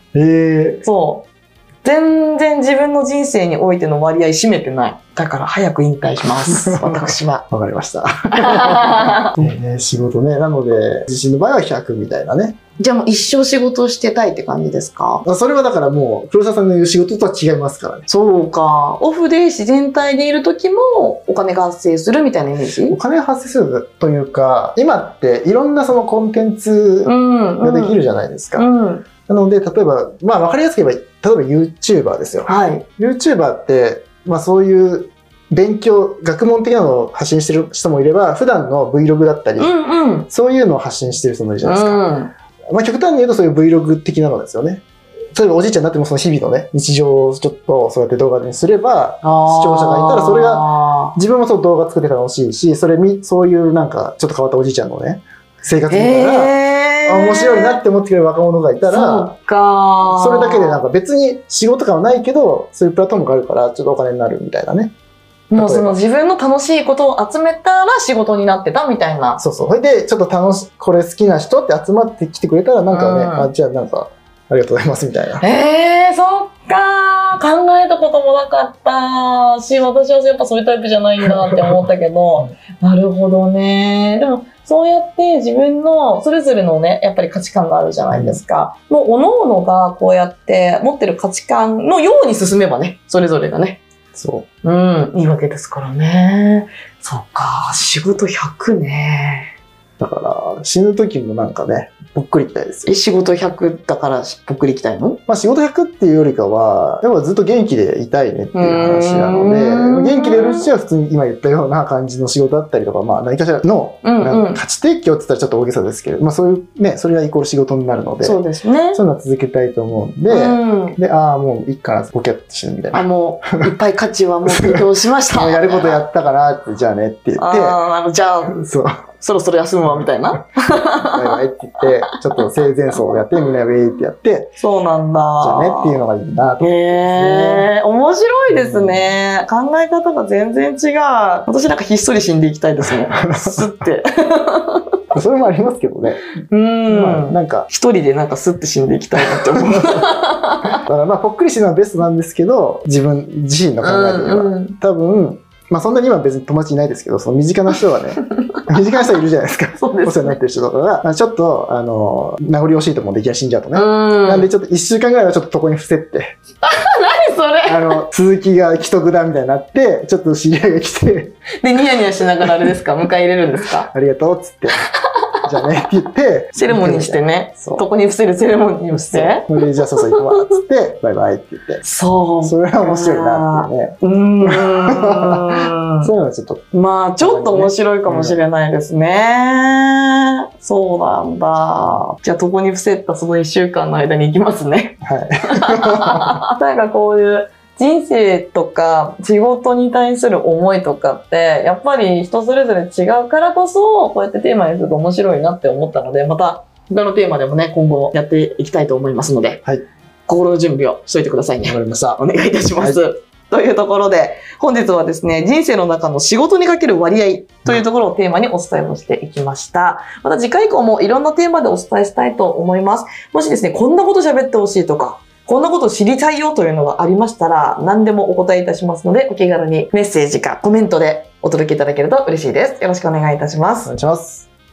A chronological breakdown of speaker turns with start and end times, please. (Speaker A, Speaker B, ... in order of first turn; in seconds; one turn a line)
Speaker A: 0.1-0.8
Speaker B: 0.8-1.3
Speaker B: 1.8-7.5
Speaker A: 6.3-12.6
Speaker B: 8.4-9.5
Speaker B: 12.8-15.2
Speaker A: 15.2-18.1
Speaker B: 18.1-23.0
Speaker A: 22.7-28.7
Speaker B: 27.1-28.0
Speaker B: 28.6-29.1
Speaker A: 29.3-39.7
Speaker B: 32.5-32.9
Speaker B: 39.6-40.3
Speaker A: 40.3-42.0
Speaker B: 41.6-42.3
Speaker A: 42.7-59.3
Speaker B: 49.2-51.2
Speaker B: 55.9-57.8
Speaker B: 58.9-60.8
Speaker A: 60.1-64.9
Speaker B: 65.5-69.4
Speaker A: 65.6-66.0
Speaker A: 69.4-75.5
Speaker B: 72.9-73.5
Speaker B: 75.4-93.8
Speaker A: 88.1-88.4
Speaker A: 94.1-94.5
Speaker B: 94.6-99.5
Speaker A: 100.0-102.9
Speaker B: 102.9-105.2
Speaker A: 105.3-118.4
Speaker B: 108.5-110.7
Speaker B: 114.0-114.6
Speaker B: 118.2-119.0
Speaker A: 118.9-123.7
Speaker B: 120.3-121.0
Speaker B: 122.9-126.0
Speaker A: 124.5-127.8
Speaker B: 127.4-128.6
Speaker A: 128.5-128.9
Speaker B: 129.2-131.3
Speaker A: 131.0-134.5
Speaker B: 134.6-136.1
Speaker A: 135.4-137.7
Speaker B: 136.6-144.8
Speaker A: 138.5-139.1
Speaker A: 142.8-143.7
Speaker A: 145.1-146.2
Speaker B: 146.5-150.8
Speaker A: 146.9-147.7
Speaker A: 149.2-150.1
Speaker A: 150.7-166.4
Speaker B: 153.8-154.8
Speaker B: 158.2-158.6
Speaker B: 159.8-160.4
Speaker B: 163.7-164.5
Speaker B: 166.6-168.0
Speaker A: 167.7-171.4
Speaker B: 171.6-173.9
Speaker A: 173.9-174.8
Speaker A: 175.4-177.9
Speaker B: 176.5-180.2
Speaker A: 178.9-181.8
Speaker B: 181.8-186.1
Speaker A: 182.4-186.6
Speaker B: 186.7-195.0
Speaker A: 187.2-188.4
Speaker A: 195.0-196.4
Speaker B: 195.5-209.6
Speaker B: 210.3-233.9
Speaker A: 211.7-212.1
Speaker A: 233.8-234.5